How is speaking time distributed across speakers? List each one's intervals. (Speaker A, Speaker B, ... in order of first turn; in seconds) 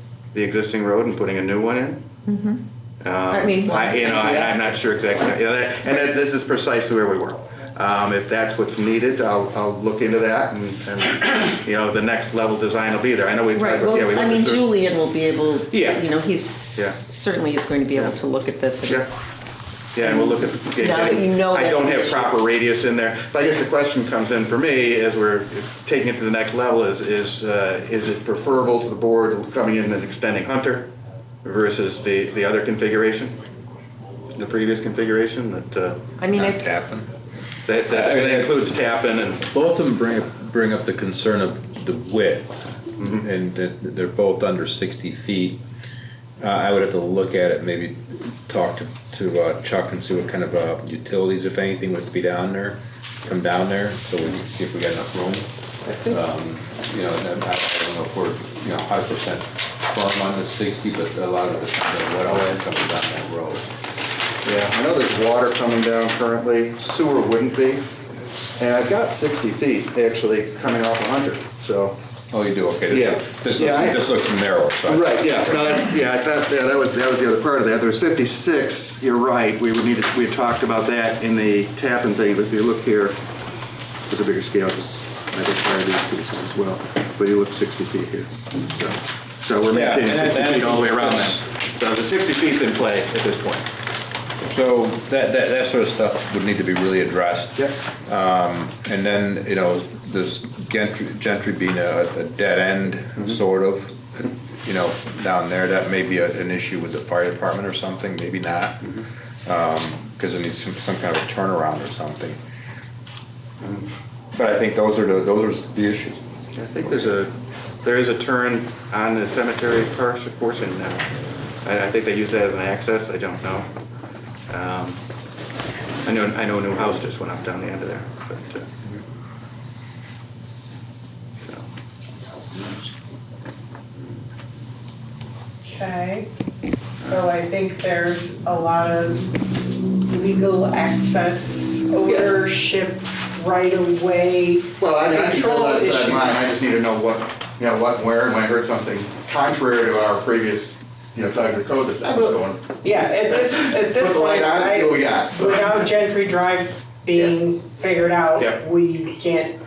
Speaker A: 0.3-2.0, 3.0-14.7, 15.7-16.1, 16.7-17.0, 19.9-30.9, 31.4-33.4, 34.3-36.0, 37.6-39.5, 43.0-43.3, 55.8-56.2, 64.4-67.8, 68.6-72.0, 72.9-74.0, 74.8-83.2, 84.1-93.7, 113.6-113.8, 116.5-121.0, 121.6-123.7, 124.5-125.0, 126.0-128.7, 131.4-131.7, 142.0-142.3, 144.8-155.9, 158.4-158.6
Speaker B: 2.2-2.6, 3.3-4.5, 13.5-19.1, 19.9-22.3, 36.2-36.6
Speaker C: 36.3-37.1, 37.9-38.6, 39.5-42.5, 43.2-45.6, 46.4-55.5, 56.1-63.7, 72.3-75.3, 89.7-91.4, 94.5-112.4, 114.3-116.2
Speaker D: 135.6-136.3, 137.0-139.4, 139.9-146.5, 152.1-159.6